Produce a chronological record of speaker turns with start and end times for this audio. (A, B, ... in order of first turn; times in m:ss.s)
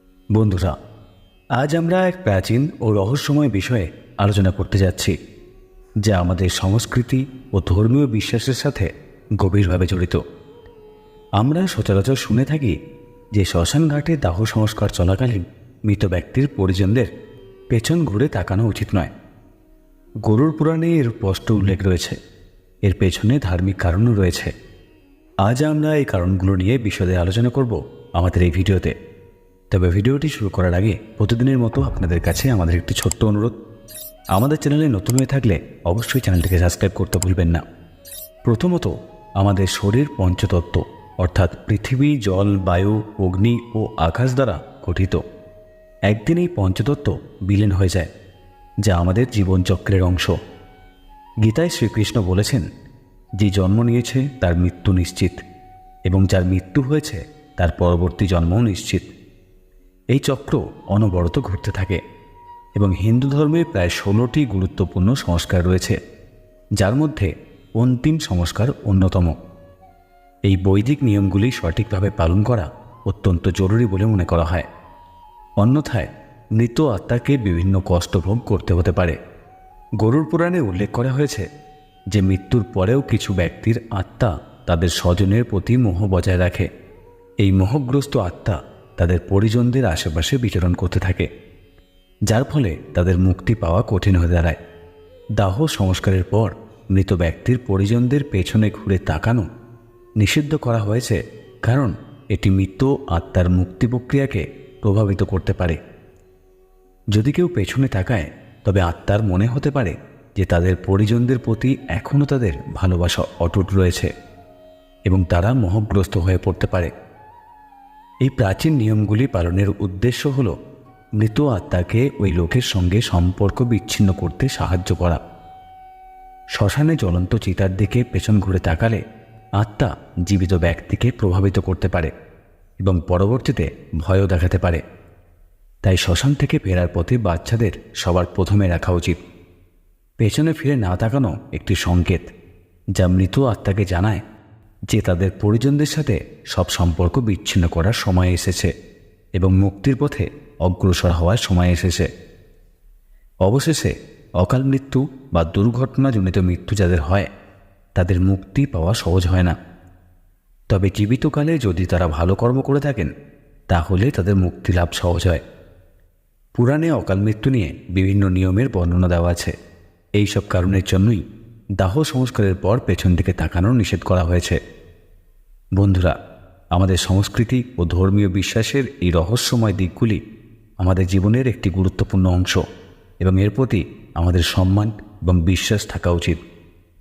0:00.3-0:00.7 A
0:01.6-0:05.1 A
0:06.0-0:08.9 A
0:09.4-0:10.2 A
0:11.4-0:12.8 A
0:13.4-0:17.1 A
0:17.7-0:19.1 A
0:20.2-0:22.2 A
0:22.9-0:24.5 A
0:25.4-0:28.9 A
0:29.7-0:33.5 A
0:34.3-0:37.6 A
0:38.5-0:45.2 A
0:46.1-0:48.1 A
0:48.8-0:50.4 A
0:51.4-0:52.7 A
0:53.4-0:55.4 A
0:56.1-0:59.1 A
1:00.1-1:02.0 A
1:02.8-1:06.0 A
1:06.8-1:09.4 A
1:10.5-1:14.7 A
1:15.6-1:19.2 A
1:20.0-1:21.5 A
1:22.1-1:26.7 A
1:27.4-1:31.3 A
1:32.3-1:34.6 A
1:35.4-1:39.5 A
1:40.2-1:45.8 A
1:47.1-1:54.1 A
1:55.1-1:56.9 A
1:58.2-2:00.6 A
2:01.2-2:05.2 A
2:06.6-2:09.0 A
2:09.6-2:12.1 A
2:12.8-2:14.8 A
2:15.8-2:19.2 A
2:20.2-2:22.3 A
2:23.0-2:24.2 A
2:24.9-2:28.7 A
2:29.4-2:32.1 A
2:33.4-2:37.3 A
2:38.0-2:39.6 A
2:40.7-2:43.1 A
2:43.7-2:45.4 A
2:46.6-2:49.5 A
2:50.2-2:51.2 A
2:51.8-2:54.6 A
2:55.8-2:56.1 A
2:56.7-3:00.2 A
3:00.8-3:02.6 A
3:03.2-3:06.4 A